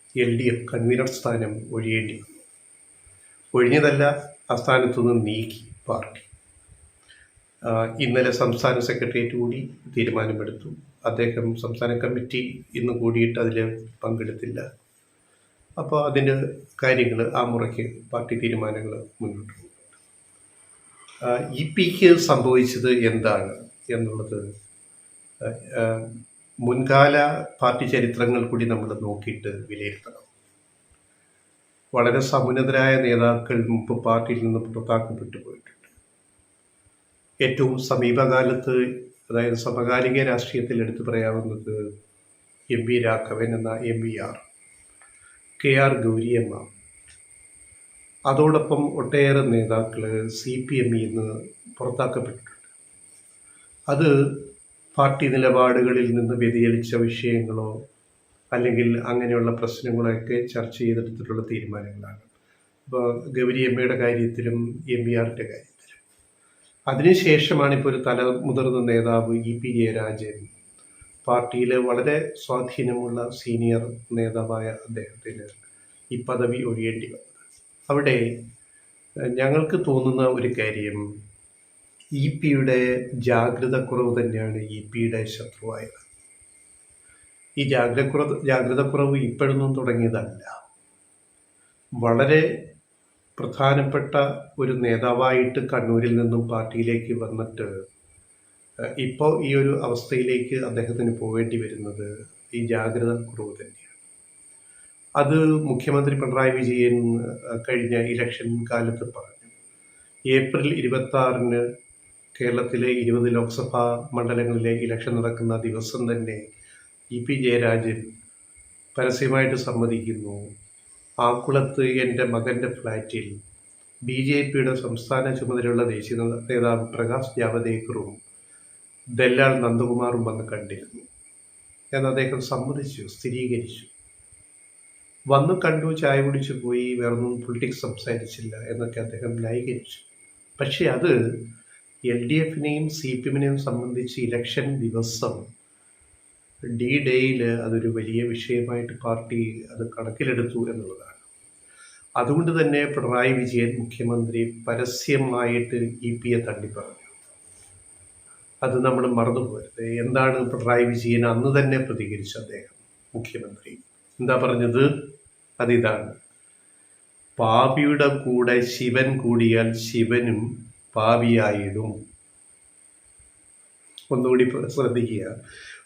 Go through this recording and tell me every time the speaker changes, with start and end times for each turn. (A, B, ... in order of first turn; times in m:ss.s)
0:00.2-0:02.4 A
0:03.5-0:06.3 A
0:07.6-0:14.6 A
0:15.8-0:20.0 A
0:21.2-0:24.4 A
0:25.4-0:26.1 A
0:26.6-0:30.3 A
0:31.9-0:35.9 A
0:37.4-0:41.8 A
0:42.7-0:44.4 A
0:45.6-0:46.7 A
0:48.3-0:52.7 A
0:54.9-0:57.7 A
0:58.5-1:02.3 A
1:02.9-1:06.0 A
1:06.9-1:10.5 A
1:11.2-1:15.6 A
1:16.1-1:18.2 A
1:19.4-1:21.0 A
1:22.2-1:26.1 A
1:27.6-1:30.6 A
1:32.0-1:32.5 A
1:33.4-1:37.7 A
1:39.0-1:44.0 A
1:45.2-1:49.5 A
1:50.3-1:51.6 A
1:52.4-1:56.4 A
1:57.1-1:58.1 A
1:59.0-2:00.5 A
2:01.2-2:03.3 A
2:04.1-2:08.2 A
2:09.2-2:11.0 A
2:11.9-2:13.9 A
2:15.3-2:20.1 A
2:20.6-2:21.1 A
2:22.1-2:25.4 A
2:26.8-2:31.2 A
2:32.2-2:37.2 A
2:38.6-2:44.9 A
2:45.6-2:46.2 A
2:47.4-2:51.9 A
2:54.1-2:55.3 A